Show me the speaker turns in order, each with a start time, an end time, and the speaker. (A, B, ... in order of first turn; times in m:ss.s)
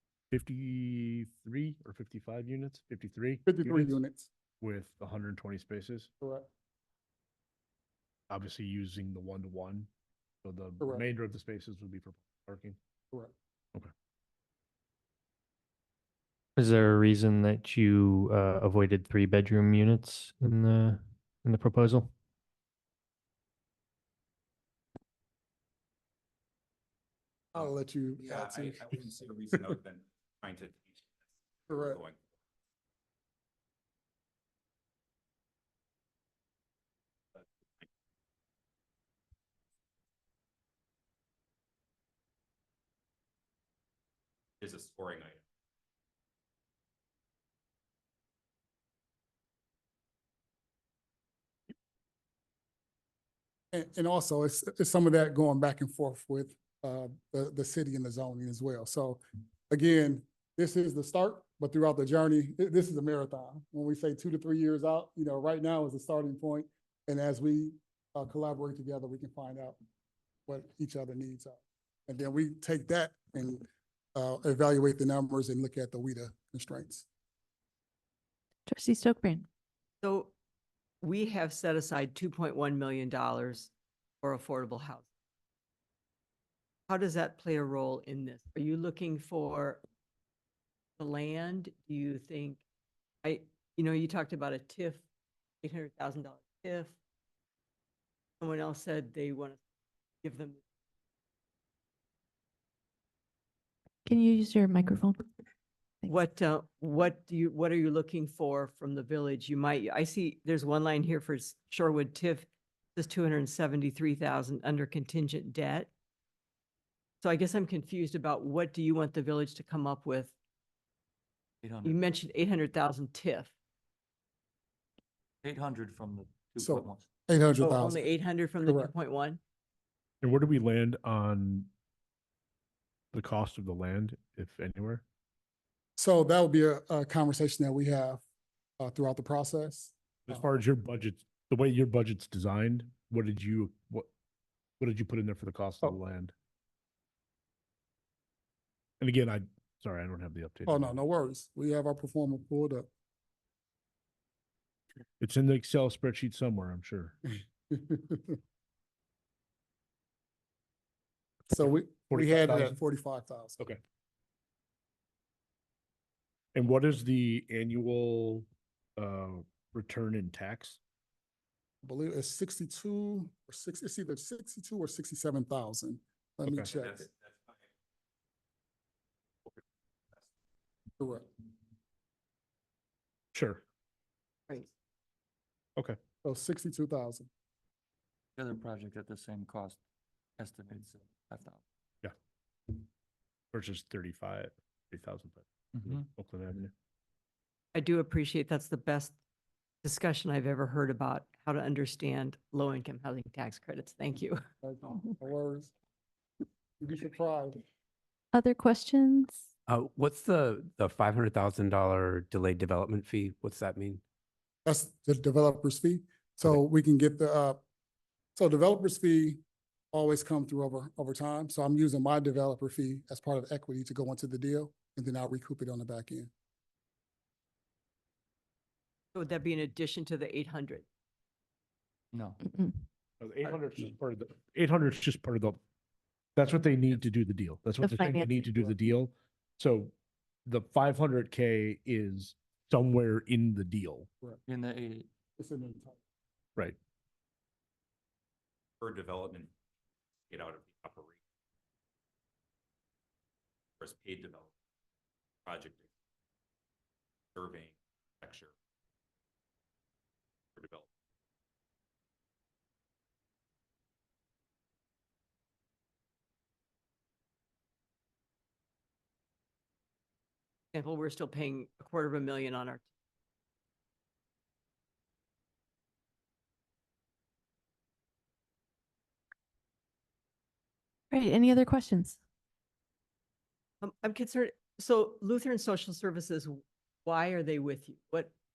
0:00.3-0:04.0 A
0:03.5-0:04.3 B
0:04.6-0:06.1 A
0:06.2-0:06.5 B
0:08.3-0:09.9 A
0:10.4-0:12.8 A
0:16.6-0:22.1 C
0:27.5-0:29.6 B
0:28.2-0:31.1 D
0:31.7-0:32.2 D
0:31.7-0:32.0 B
0:44.6-0:45.4 D
0:53.7-1:09.8 B
1:10.5-1:17.1 B
1:18.7-1:19.5 E
1:20.0-1:20.3 F
1:21.0-1:23.7 F
1:24.2-1:25.0 F
1:26.9-1:29.8 F
1:31.0-1:32.6 F
1:33.2-1:35.0 F
1:35.6-1:37.0 F
1:38.4-1:39.6 F
1:40.2-1:40.6 F
1:44.0-1:45.3 E
1:46.0-1:55.9 F
1:57.2-2:00.3 F
2:01.6-2:02.0 G
2:01.8-2:03.5 F
2:05.4-2:07.1 G
2:06.6-2:08.0 B
2:07.6-2:09.4 F
2:08.7-2:08.9 B
2:10.2-2:11.7 A
2:13.1-2:15.0 A
2:16.0-2:18.2 B
2:18.8-2:20.4 B
2:20.3-2:24.1 A
2:24.8-2:26.3 A
2:29.0-2:31.0 A
2:30.7-2:32.9 B
2:35.2-2:37.2 A
2:37.3-2:38.4 B
2:41.5-2:43.6 B
2:42.1-2:42.8 A
2:46.6-2:48.4 A
2:49.0-2:50.8 A
2:51.8-2:57.1 B
2:56.8-2:57.1 D
3:01.0-3:01.3 B
3:03.3-3:03.6 A
3:06.2-3:07.3 B
3:08.4-3:09.8 G
3:10.4-3:11.6 G
3:13.5-3:16.7 A
3:15.7-3:16.1 G
3:17.7-3:19.1 F
3:19.8-3:24.4 F
3:24.6-3:25.7 B
3:26.8-3:27.6 B
3:28.3-3:29.5 E
3:29.7-3:34.0 H
3:34.6-3:37.6 B
3:38.4-3:39.4 B
3:39.9-3:46.3 B
3:49.1-3:50.8 F
3:52.1-3:52.4 G
3:52.4-3:52.8 E
3:53.2-3:55.6 A
3:56.4-3:59.9 A
3:57.8-3:58.7 E
4:00.5-4:04.1 A
4:04.5-4:05.1 G
4:05.4-4:06.0 B
4:08.8-4:09.5 D
4:10.3-4:11.2 D
4:13.8-4:14.5 D
4:15.5-4:15.8 D
4:17.4-4:18.5 D
4:20.6-4:20.9 D
4:30.7-4:32.8 F
4:41.1-4:42.2 E
4:43.8-4:48.3 F